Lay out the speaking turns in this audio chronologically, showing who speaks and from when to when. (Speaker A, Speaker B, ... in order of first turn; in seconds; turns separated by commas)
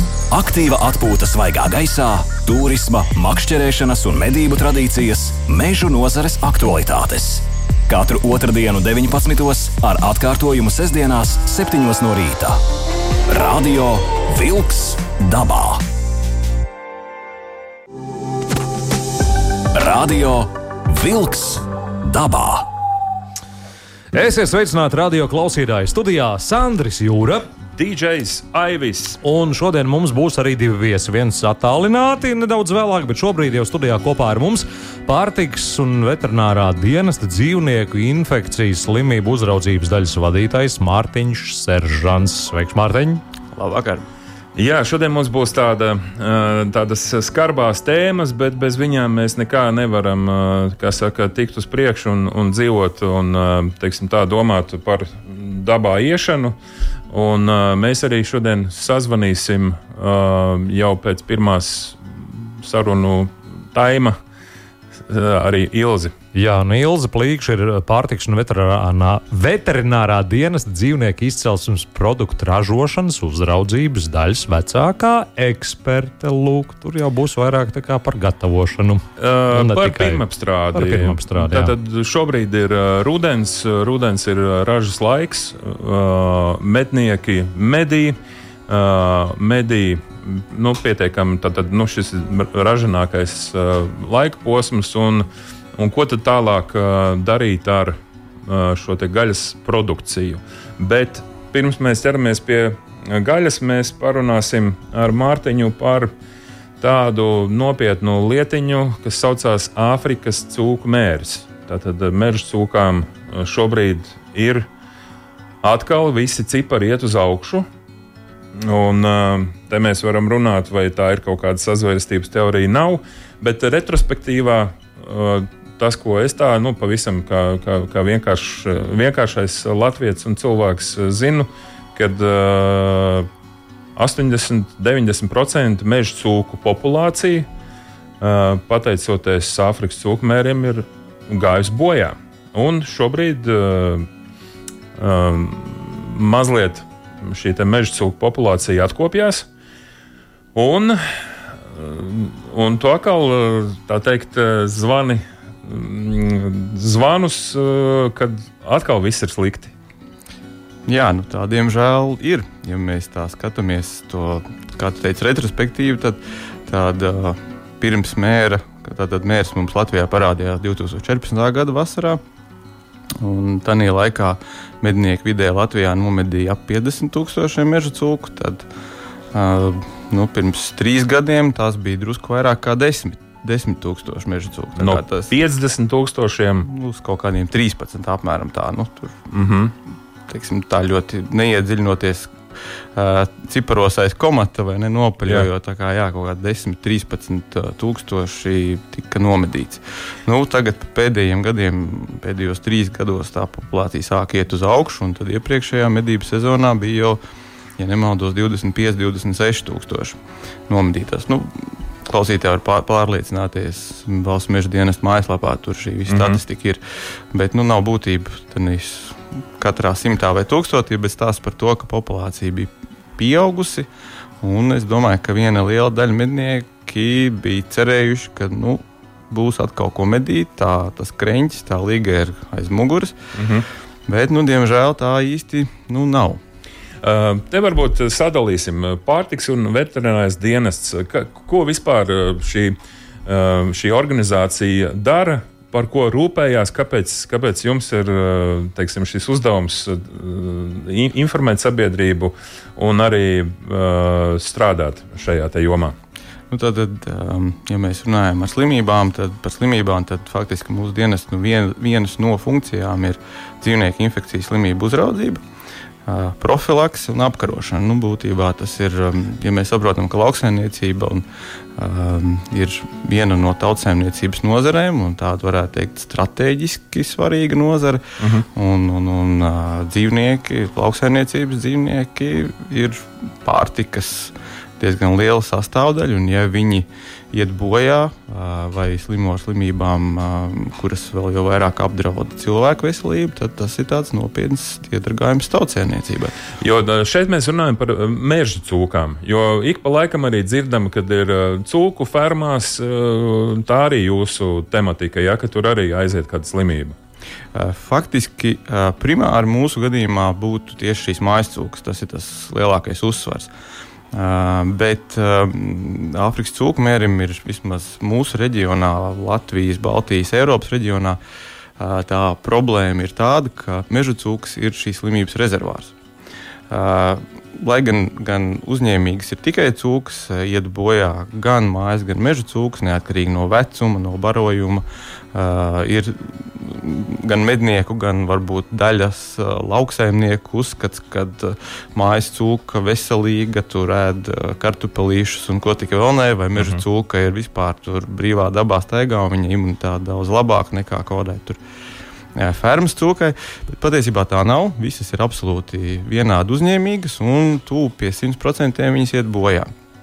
Speaker A: 0.3-12.6, Speaker A: 13.3-15.8, Speaker A: 19.7-22.7, Speaker B: 24.1-27.5, Speaker C: 27.7-29.2, Speaker B: 29.2-43.2, Speaker D: 43.5-44.0, Speaker C: 44.5-56.5, Speaker C: 57.1-64.2, Speaker C: 65.1-66.1, Speaker B: 66.3-81.7, Speaker C: 79.2-88.2, Speaker C: 88.7-106.1, Speaker C: 106.8-114.7, Speaker C: 115.6-117.7, Speaker C: 118.5-133.3, Speaker C: 133.9-137.5, Speaker C: 138.2-144.1, Speaker C: 145.0-149.5, Speaker C: 150.5-159.7, Speaker D: 160.9-172.2, Speaker D: 173.2-178.7, Speaker D: 179.3-185.3, Speaker C: 184.8-186.7, Speaker D: 186.6-189.2, Speaker C: 189.3-189.7, Speaker D: 190.3-192.3, Speaker D: 192.9-207.2, Speaker D: 207.8-216.8, Speaker C: 216.1-216.4, Speaker D: 217.3-223.9, Speaker D: 224.4-233.2, Speaker C: 233.3-233.7, Speaker D: 234.1-236.4, Speaker C: 237.0-255.9, Speaker D: 256.5-265.4, Speaker D: 266.1-271.2, Speaker D: 271.8-278.0, Speaker C: 278.2-278.4, Speaker D: 278.5-296.3, Speaker C: 296.6-306.9, Speaker D: 307.5-313.5, Speaker D: 314.1-321.2, Speaker D: 321.8-325.9, Speaker D: 326.7-351.6, Speaker D: 352.3-359.7